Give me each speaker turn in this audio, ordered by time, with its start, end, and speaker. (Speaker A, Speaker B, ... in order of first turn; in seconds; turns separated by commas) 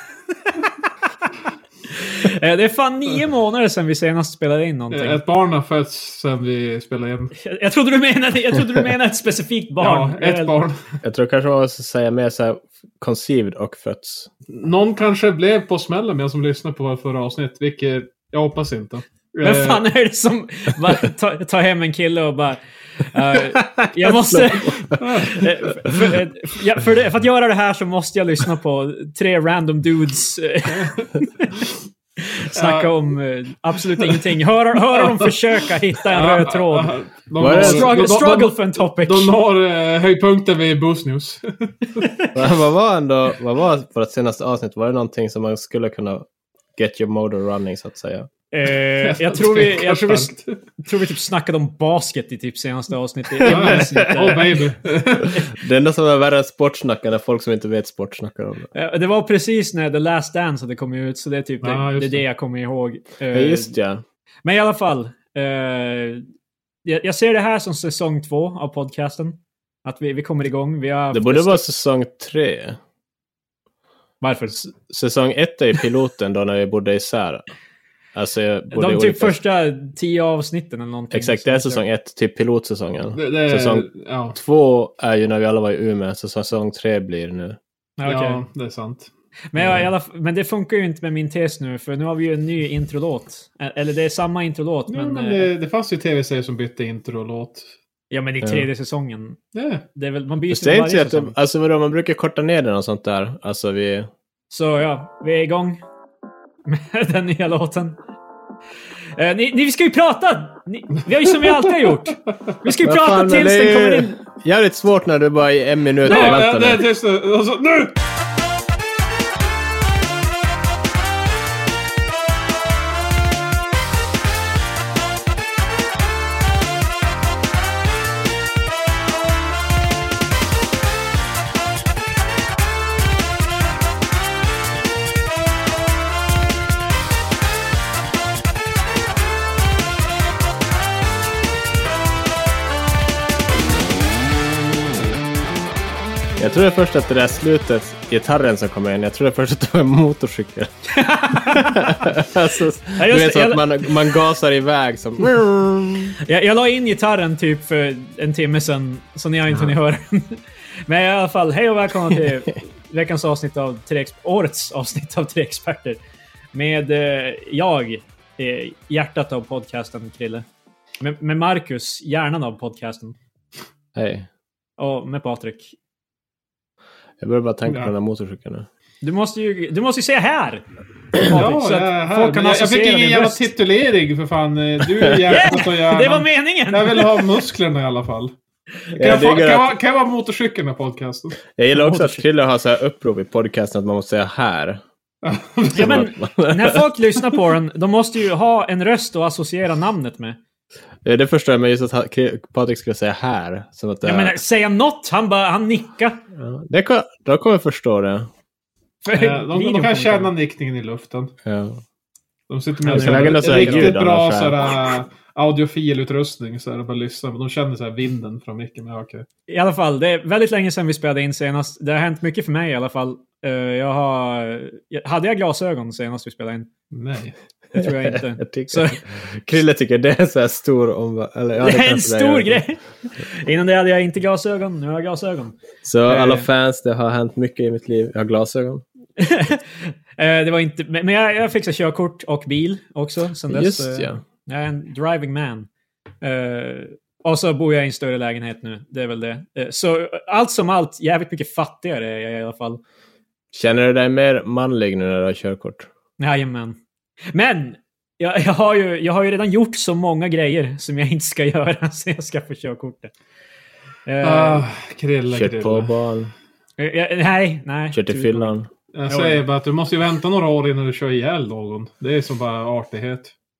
Speaker A: 1.9-5.2, Speaker B: 4.9-7.3, Speaker A: 7.4-10.6, Speaker B: 9.8-10.8, Speaker C: 11.0-14.3, Speaker B: 14.5-19.8, Speaker A: 19.4-31.6, Speaker C: 23.5-24.9, Speaker B: 25.0-25.5, Speaker B: 30.8-31.0, Speaker A: 32.2-39.3, Speaker B: 32.5-32.9, Speaker B: 34.9-35.3, Speaker B: 36.1-42.0, Speaker C: 37.4-38.0, Speaker C: 42.3-48.3, Speaker A: 48.5-54.6, Speaker B: 49.0-50.6, Speaker B: 53.4-55.4, Speaker C: 53.4-54.4, Speaker C: 55.4-58.7, Speaker A: 58.7-63.7, Speaker B: 61.6-62.2, Speaker C: 63.3-64.0, Speaker A: 64.4-66.2, Speaker A: 66.8-71.6, Speaker C: 71.1-72.8, Speaker A: 74.2-74.6, Speaker C: 74.5-77.4, Speaker C: 78.1-79.4, Speaker A: 78.7-81.8, Speaker C: 81.1-87.6, Speaker B: 83.1-84.3, Speaker A: 88.0-88.4, Speaker B: 88.0-89.1, Speaker A: 89.5-95.5, Speaker C: 89.6-89.8, Speaker B: 94.9-97.7, Speaker A: 98.1-99.4, Speaker B: 99.5-99.8, Speaker A: 99.9-101.3, Speaker C: 100.5-104.1, Speaker A: 104.5-105.8, Speaker A: 106.7-108.0, Speaker A: 109.2-114.2, Speaker C: 112.8-116.8, Speaker B: 116.0-118.0, Speaker C: 146.4-150.7, Speaker A: 150.9-152.1, Speaker C: 151.3-156.1, Speaker A: 153.0-153.8, Speaker A: 156.2-166.0, Speaker A: 166.5-170.4, Speaker A: 171.0-173.1, Speaker C: 173.9-174.3, Speaker A: 174.8-175.7, Speaker C: 177.2-178.7, Speaker B: 177.6-177.9, Speaker A: 179.0-183.5, Speaker B: 181.3-188.3, Speaker A: 185.1-187.2, Speaker C: 188.9-189.7, Speaker B: 188.9-191.4, Speaker C: 191.5-194.8, Speaker A: 191.7-192.2, Speaker B: 195.2-196.0, Speaker C: 195.7-196.8, Speaker A: 195.7-200.4, Speaker C: 201.0-204.4, Speaker A: 204.0-206.2, Speaker C: 206.3-208.3, Speaker A: 209.0-210.3, Speaker B: 209.1-211.3, Speaker C: 211.4-211.8, Speaker B: 212.5-219.2, Speaker A: 212.8-214.0, Speaker C: 212.9-214.5, Speaker A: 219.5-226.7, Speaker B: 226.9-227.3, Speaker A: 227.7-229.0, Speaker C: 227.8-232.6, Speaker A: 231.6-235.5, Speaker C: 235.8-238.8, Speaker A: 236.1-236.4, Speaker A: 239.2-245.7, Speaker C: 243.5-244.2, Speaker A: 246.2-252.8, Speaker C: 253.5-255.9, Speaker A: 256.2-256.8, Speaker A: 257.3-263.1, Speaker A: 264.1-264.6, Speaker B: 264.2-265.9, Speaker C: 265.3-266.3, Speaker A: 266.8-268.5, Speaker C: 267.9-268.7, Speaker B: 268.9-273.3, Speaker A: 269.1-269.4